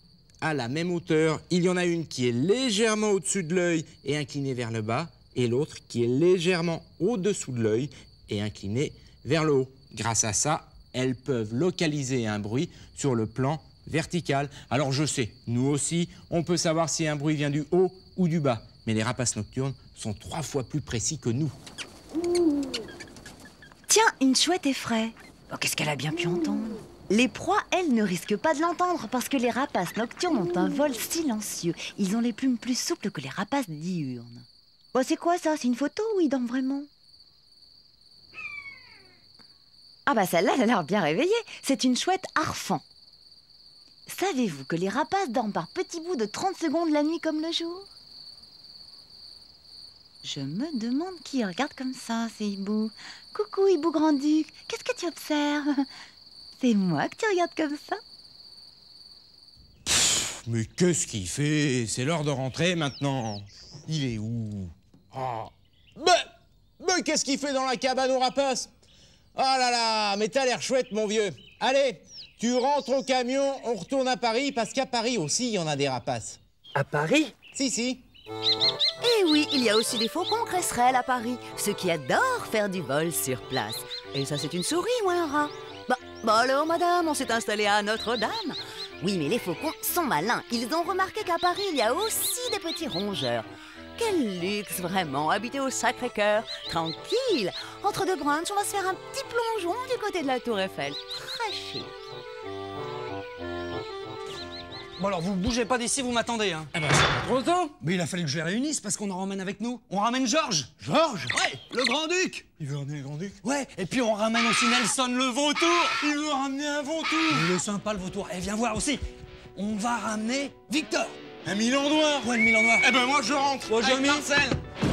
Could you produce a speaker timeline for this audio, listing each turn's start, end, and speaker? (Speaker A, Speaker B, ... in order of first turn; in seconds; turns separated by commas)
Speaker A: 0.4-21.5, Speaker B: 23.9-36.9, Speaker B: 40.1-42.8, Speaker B: 44.1-47.9, Speaker B: 50.2-55.9, Speaker B: 56.6-58.0, Speaker A: 59.9-68.7, Speaker A: 69.3-76.4, Speaker C: 76.7-77.3, Speaker A: 77.5-78.0, Speaker B: 79.0-93.5, Speaker B: 94.0-101.9, Speaker C: 105.0-106.7, Speaker A: 106.7-107.8, Speaker C: 107.8-110.8, Speaker A: 110.8-111.4, Speaker C: 111.3-112.5, Speaker A: 112.6-113.4, Speaker C: 113.4-115.9, Speaker A: 115.5-117.5, Speaker C: 117.3-119.0, Speaker C: 119.5-121.2, Speaker A: 121.4-124.6, Speaker C: 122.2-122.9, Speaker C: 123.7-124.3